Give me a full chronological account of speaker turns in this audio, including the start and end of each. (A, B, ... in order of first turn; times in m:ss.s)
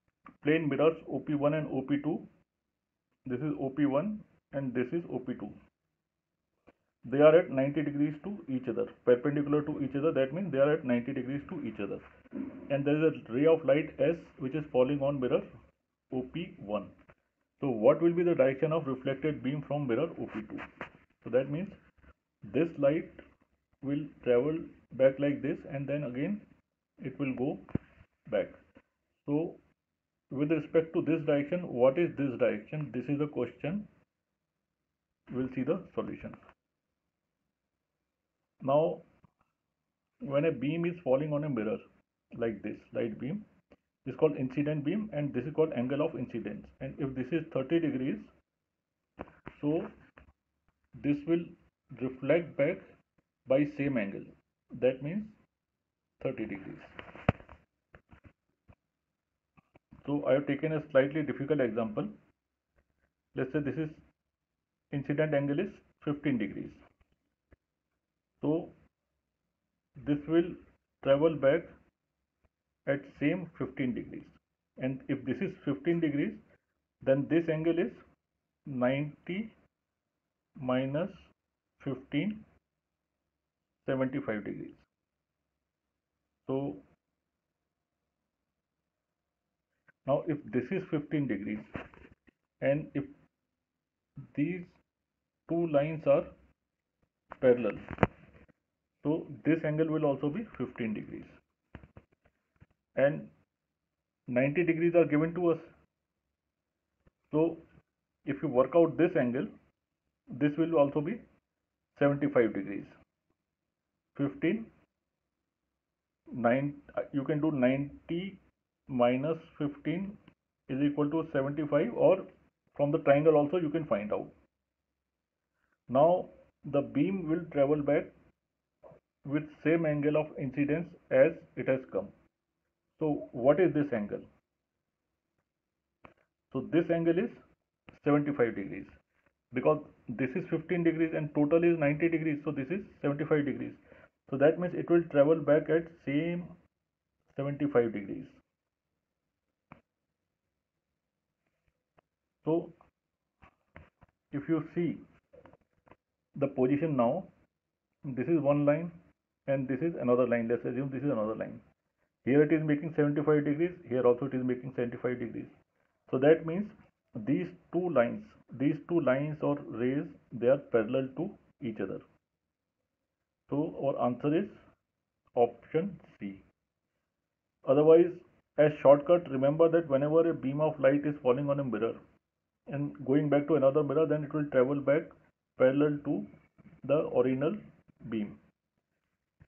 0:00.4-0:02.3 A
0:03.3-0:05.6 A
0:07.0-0:12.0 A
0:12.7-0:15.5 A
0:16.1-0:16.9 A
0:17.6-0:20.7 A
0:21.2-0:21.8 A
0:22.5-0:23.2 A
0:23.8-0:26.5 A
0:27.0-0:27.6 A
0:28.3-0:28.6 A
0:29.2-0:29.6 A
0:30.3-0:33.9 A
0:35.3-0:36.4 A
0:38.6-0:39.0 A
0:40.2-0:41.8 A
0:42.4-0:43.4 A
0:44.0-0:48.3 A
0:49.5-0:49.9 A
0:51.0-0:52.8 A
0:53.5-0:55.4 A
0:56.2-0:57.0 A
1:00.0-1:02.1 A
1:03.3-1:04.0 A
1:04.9-1:06.8 A
1:08.4-1:08.7 A
1:10.0-1:11.7 A
1:12.9-1:16.4 A
1:17.0-1:18.0 A
1:18.7-1:19.6 A
1:20.6-1:22.5 A
1:23.8-1:24.9 A
1:26.4-1:26.8 A
1:30.1-1:31.7 A
1:32.6-1:33.2 A
1:34.3-1:34.8 A
1:35.5-1:36.3 A
1:37.4-1:37.9 A
1:39.0-1:41.4 A
1:43.0-1:43.3 A
1:44.3-1:45.7 A
1:47.3-1:47.6 A
1:48.3-1:49.5 A
1:50.3-1:51.2 A
1:52.0-1:53.0 A
1:54.2-1:54.7 A
1:56.3-2:02.2 A
2:02.8-2:04.3 A
2:05.9-2:08.1 A
2:09.2-2:12.1 A
2:13.0-2:14.3 A
2:16.5-2:19.0 A
2:19.5-2:26.6 A
2:27.3-2:28.4 A
2:32.4-2:32.8 A
2:34.3-2:35.0 A
2:36.4-2:37.3 A
2:38.0-2:39.0 A
2:39.5-2:41.6 A
2:42.2-2:45.5 A
2:46.1-2:52.0 A
2:53.5-2:54.6 A
2:55.4-2:56.5 A
2:57.6-3:02.0 A
3:02.7-3:06.3 A
3:06.8-3:08.4 A